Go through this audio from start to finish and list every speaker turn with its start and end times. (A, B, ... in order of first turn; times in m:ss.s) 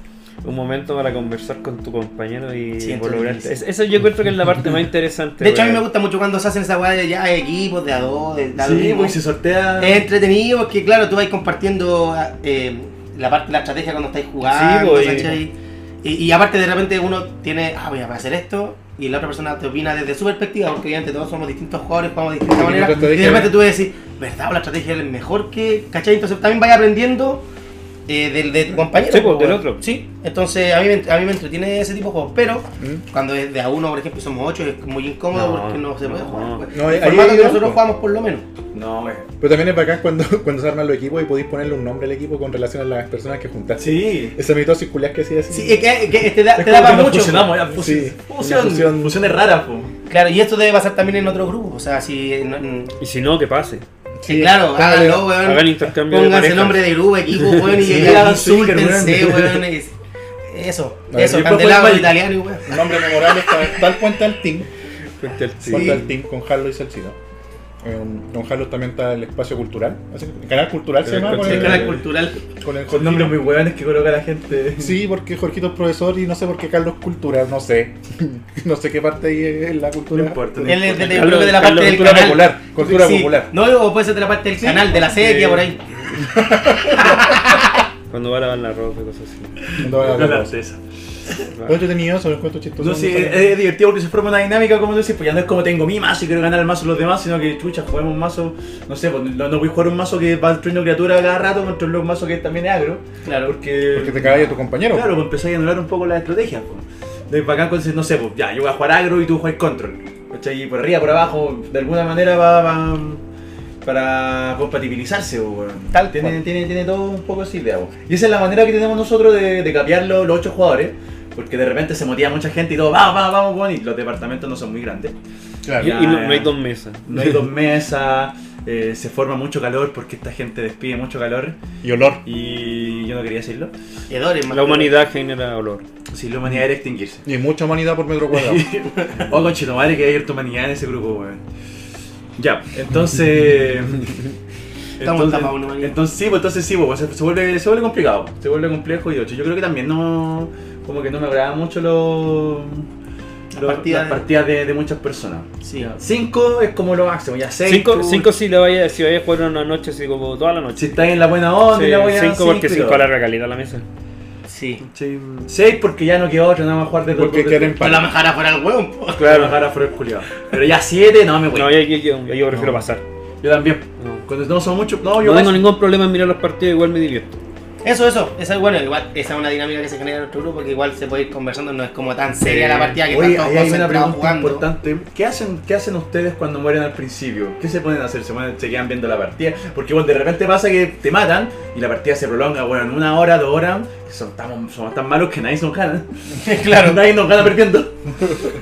0:00.4-0:05.8 A
0:02.8-0:03.6 B
0:05.4-0:09.2 B
0:08.6-0:10.1 C
0:09.8-0:27.4 B
0:14.5-0:15.4 A
0:22.5-0:23.6 D
0:28.1-0:38.4 B
0:29.0-0:29.8 A
0:35.3-0:36.6 A
0:36.7-0:37.8 D
0:38.7-0:39.3 C
0:39.4-0:45.8 D
0:43.8-0:44.4 C
0:45.5-0:47.6 B
0:46.5-0:49.9 C
0:47.7-0:49.3 D
0:48.4-0:48.9 A
0:50.1-0:53.0 B
0:53.0-0:53.8 A
0:54.2-0:55.4 D
0:54.2-0:59.9 B
0:55.4-0:57.8 A
0:57.7-0:59.7 C
1:00.5-1:03.8 B
1:01.1-1:01.4 D
1:01.1-1:02.2 C
1:02.7-1:04.7 D
1:05.2-1:06.1 A
1:05.6-1:07.2 D
1:05.7-1:06.0 B
1:07.8-1:12.0 D
1:11.1-1:12.1 C
1:11.2-1:12.4 B
1:12.6-1:13.4 D
1:12.9-1:15.0 C
1:14.8-1:23.5 D
1:20.1-1:21.4 C
1:20.6-1:25.8 B
1:21.0-1:22.4 A
1:25.1-1:26.2 A
1:26.2-1:27.2 D
1:26.9-1:27.6 B
1:28.1-1:29.7 A
1:29.7-1:30.8 C
1:29.8-1:30.5 D
1:31.5-1:31.8 A
1:31.7-1:33.5 D
1:32.8-1:53.2 C
1:43.2-1:43.6 B
1:43.9-1:45.2 D
1:53.8-2:05.2 C
1:55.9-1:56.4 B
2:05.6-2:06.0 D
2:05.7-2:06.5 C
2:05.8-2:07.1 A
2:07.1-2:11.6 C
2:11.8-2:12.2 D
2:12.2-2:13.7 C
2:14.1-2:15.0 B
2:14.5-2:15.8 A
2:16.1-2:17.2 C
2:17.2-2:18.7 D
2:18.3-2:21.4 C
2:22.4-2:24.2 C
2:25.0-2:32.9 C
2:25.0-2:26.0 B
2:33.5-2:34.3 B
2:33.6-2:38.3 C
2:35.6-2:35.9 B
2:37.6-2:41.0 A
2:40.8-2:43.1 C
2:41.7-2:43.8 A
2:44.5-2:44.8 B
2:44.8-2:47.8 C
2:47.1-2:48.1 D
2:47.8-2:49.5 B
2:49.2-2:49.6 A
2:49.2-2:51.8 C
2:51.5-2:53.0 A
2:52.5-2:52.8 D
2:53.4-2:55.7 C
2:54.0-2:54.2 A
2:55.2-2:57.4 A
2:57.8-3:04.7 B
3:02.4-3:03.0 A
3:03.0-3:17.9 C
3:16.4-3:17.0 B